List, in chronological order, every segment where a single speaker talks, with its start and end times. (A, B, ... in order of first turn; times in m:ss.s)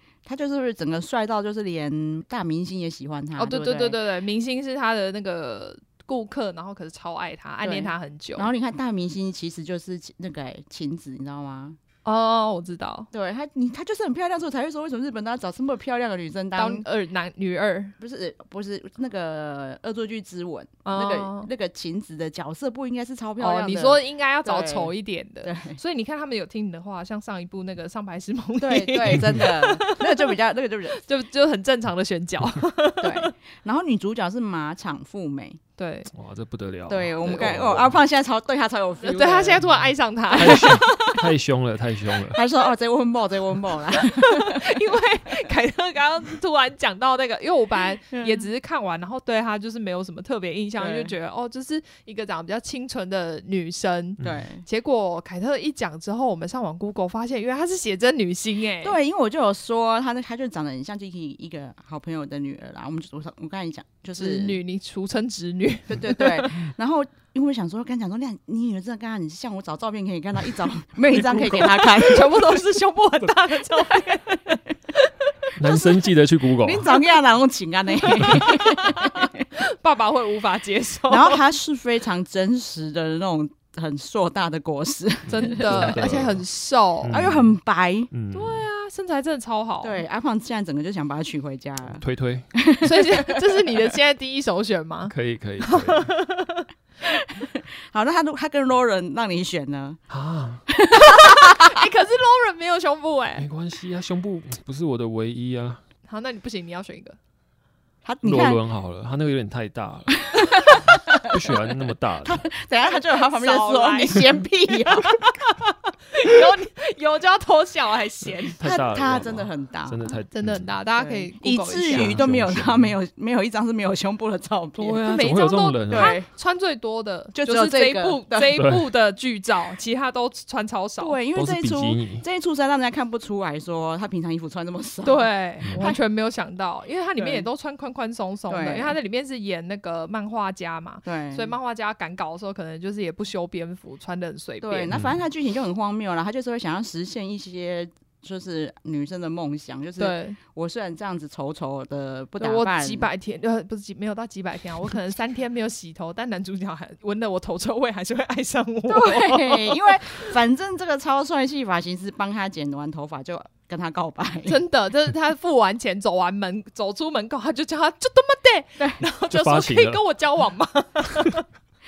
0:00.2-0:04.0 A
0:03.4-0:08.5 B
0:07.6-0:11.8 A
0:12.0-0:13.1 B
0:13.1-0:16.9 A
0:16.6-0:18.0 B
0:18.0-0:25.8 A
0:20.8-0:21.5 B
0:23.4-0:30.3 B
0:28.6-0:31.0 A
0:30.9-0:33.3 B
0:33.0-0:35.6 A
0:35.8-0:36.1 B
0:36.1-0:38.0 C
0:36.9-0:39.6 A
0:39.0-0:41.1 B
0:40.3-0:42.4 C
0:40.3-0:41.3 A
0:42.3-0:44.7 A
0:43.9-0:59.0 B
0:48.1-0:48.5 A
0:50.8-0:51.1 A
0:54.2-0:54.6 A
0:58.8-1:04.6 A
1:04.2-1:06.6 B
1:05.9-1:12.6 A
1:11.2-1:15.9 B
1:15.6-1:17.0 C
1:16.6-1:19.4 A
1:18.0-1:21.4 B
1:21.1-1:26.2 A
1:25.3-1:27.2 B
1:25.4-1:26.4 C
1:27.0-1:27.5 C
1:27.1-1:28.1 A
1:28.1-1:28.6 C
1:28.3-1:30.0 B
1:29.8-1:32.0 A
1:32.0-1:32.5 C
1:32.5-1:33.8 A
1:32.8-1:36.7 B
1:35.1-1:36.1 C
1:37.3-1:40.0 A
1:40.1-1:40.6 C
1:40.7-1:41.8 A
1:40.9-1:43.5 B
1:43.4-1:45.8 C
1:46.1-1:47.2 B
1:48.0-1:48.6 A
1:48.2-1:52.4 C
1:50.3-1:51.7 A
1:52.2-1:55.4 A
1:53.2-1:55.5 B
1:56.1-1:58.6 B
1:58.6-2:00.7 C
1:58.6-2:00.1 A
2:00.3-2:02.2 B
2:01.0-2:05.2 A
2:01.9-2:02.9 C
2:04.8-2:06.2 C
2:04.9-2:11.2 B
2:05.9-2:06.3 A
2:07.3-2:08.6 A
2:08.6-2:08.9 C
2:11.0-2:16.0 A
2:11.4-2:12.2 C
2:15.0-2:24.9 B
2:17.2-2:17.5 A
2:18.5-2:19.0 A
2:21.0-2:21.5 A
2:24.6-2:33.1 A
2:30.0-2:30.4 B
2:32.4-2:40.3 B
2:38.9-2:44.6 A
2:44.5-2:51.4 B
2:49.3-2:50.0 C